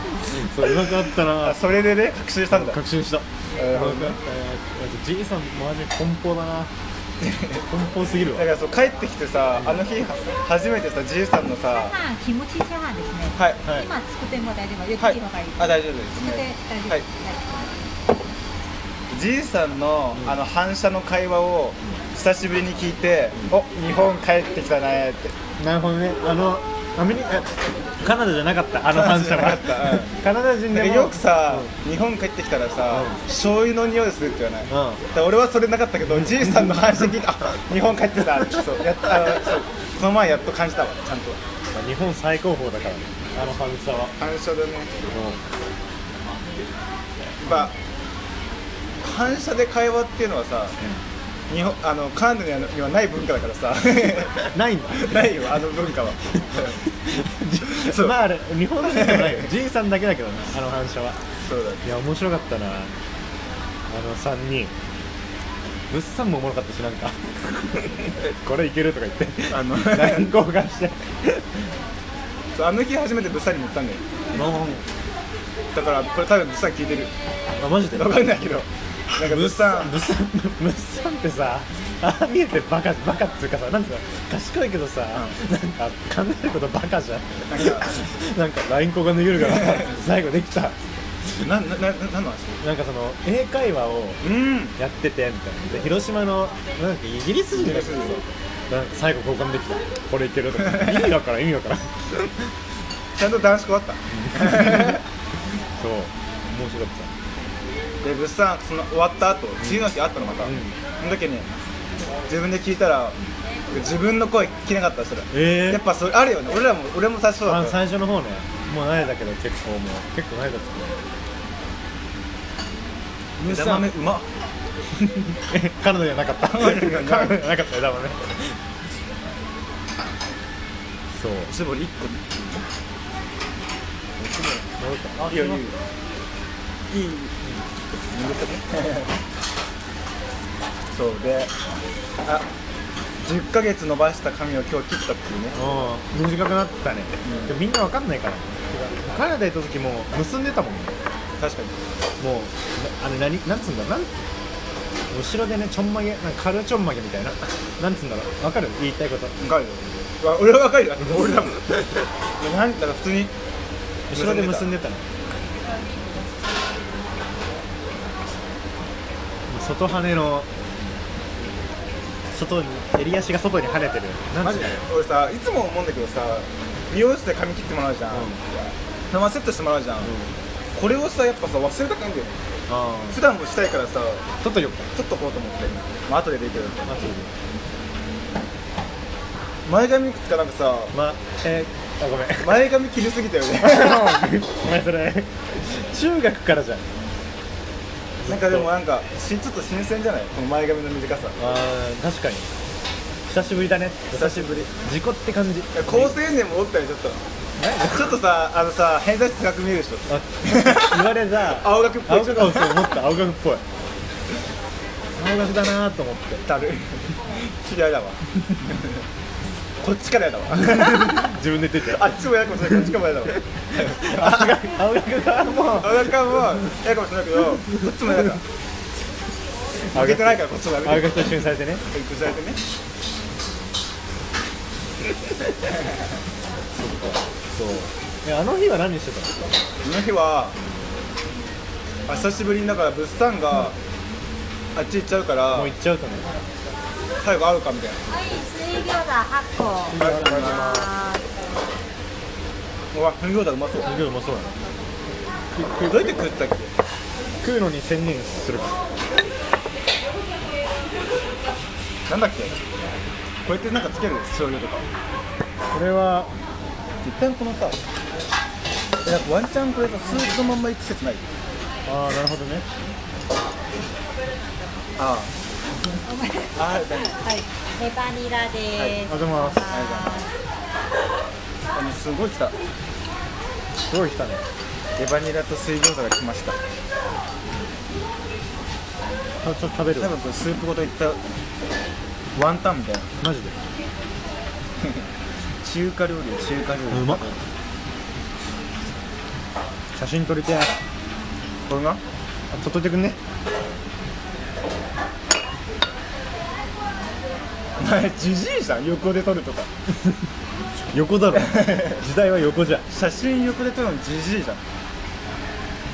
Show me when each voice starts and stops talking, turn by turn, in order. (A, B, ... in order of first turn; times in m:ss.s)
0:00.3-0:01.6 A
0:00.6-0:02.8 B
0:02.5-0:06.7 A
0:03.6-0:04.2 B
0:07.2-0:07.7 B
0:07.7-0:08.5 A
0:08.3-0:12.0 B
0:11.7-0:17.4 C
0:13.4-0:13.6 B
0:15.0-0:17.0 B
0:19.1-0:25.4 B
0:25.6-0:31.7 A
0:28.9-0:30.2 B
0:30.7-0:41.4 B
0:32.9-0:33.2 A
0:34.7-0:35.0 A
0:36.2-0:36.8 A
0:41.7-0:44.2 A
0:44.2-0:44.9 B
0:45.1-0:45.4 A
0:47.4-0:47.7 B
0:49.0-0:50.8 B
0:51.5-0:56.8 B
0:54.5-0:55.1 A
0:57.0-1:01.2 A
0:57.7-0:58.2 B
0:58.8-0:59.5 B
1:01.4-1:01.9 B
1:01.8-1:02.9 A
1:03.9-1:04.7 A
1:05.9-1:11.6 A
1:09.5-1:10.3 B
1:12.6-1:14.0 B
1:14.3-1:14.8 A
1:15.8-1:17.1 B
1:17.6-1:18.3 A
1:18.0-1:20.0 B
1:19.2-1:30.8 A
1:27.5-1:28.0 B
1:29.5-1:29.9 B
1:31.4-1:32.6 B
1:32.6-1:34.2 A
1:34.2-1:34.8 B
1:34.8-1:38.2 A
1:37.5-1:38.2 B
1:38.7-1:42.1 A
1:40.7-1:41.0 B
1:43.2-1:45.0 B
1:44.1-1:45.0 A
1:45.8-1:47.1 A
1:48.0-1:51.5 B
1:50.4-1:50.8 A
1:52.3-1:53.2 B
1:53.7-1:57.8 B
1:55.3-1:55.8 A
1:57.5-2:01.0 A
2:03.4-2:04.3 B
2:03.4-2:03.9 A
2:05.5-2:08.6 A
2:06.5-2:07.4 B
2:11.1-2:11.5 A
2:11.5-2:12.6 B
2:14.2-2:15.6 A
2:15.3-2:15.8 B
2:16.9-2:17.4 B
2:18.1-2:19.1 B
2:20.9-2:21.5 B
2:23.2-2:25.6 B
2:25.6-2:30.9 A
2:27.2-2:27.6 B
2:31.4-2:31.8 B
2:32.2-2:34.1 A
2:35.1-2:39.4 A
2:39.4-2:43.3 B
2:44.1-2:45.0 A
2:44.1-2:44.7 B
2:49.5-2:50.5 A
2:52.3-2:54.8 A
2:54.4-2:58.3 B
2:58.1-2:58.4 A
2:59.1-3:00.1 B
3:00.0-3:00.3 A
3:00.8-3:02.3 B
3:02.7-3:03.2 A
3:03.1-3:04.2 B
3:04.4-3:04.9 A
3:04.9-3:06.8 B
3:06.9-3:07.3 A
3:09.7-3:10.9 B
3:10.9-3:12.6 A
3:12.4-3:14.2 B
3:13.6-3:16.9 A
3:18.2-3:18.7 A
3:18.2-3:21.4 B
3:21.4-3:22.5 A
3:23.3-3:26.1 A
3:24.1-3:24.7 B
3:25.7-3:27.2 B
3:27.6-3:28.2 A
3:27.9-3:32.9 B
3:30.1-3:33.6 A
3:35.2-3:36.4 A
3:36.4-3:39.0 B
3:39.8-3:44.6 B
3:40.6-3:42.1 A
3:44.0-3:46.1 A
3:45.7-3:48.4 B
3:49.9-3:51.8 A
3:49.9-3:51.4 B
3:51.9-3:52.6 B
3:57.5-3:59.4 A
3:59.8-4:00.6 B
4:02.1-4:03.8 B
4:04.8-4:05.7 B
4:05.5-4:06.3 A
4:07.2-4:08.0 B
4:08.1-4:11.2 C
4:09.9-4:10.9 A
4:09.9-4:10.8 B
4:12.9-4:13.9 B
4:13.9-4:14.5 A
4:15.6-4:16.7 B
4:17.4-4:18.8 A
4:22.1-4:22.5 B
4:23.4-4:24.8 B
4:25.7-4:26.3 A
4:27.0-4:27.8 B
4:29.0-4:31.2 B
4:31.9-4:32.6 A
4:35.0-4:35.3 B
4:36.0-4:40.3 C
4:36.6-4:37.1 B
4:39.0-4:39.8 A
4:39.7-4:40.1 B
4:41.8-4:42.6 B
4:43.9-4:44.4 A
4:45.0-4:46.6 B
4:49.4-4:50.1 A
4:50.0-4:51.2 B
4:52.4-4:53.1 B
4:53.2-4:53.6 A
4:55.6-4:57.4 B
4:56.9-4:57.2 A
4:59.9-5:00.8 A
5:01.7-5:02.0 B
5:02.5-5:03.2 A
5:07.8-5:09.7 B
5:10.9-5:12.9 A
5:11.3-5:12.0 B
5:12.9-5:14.6 B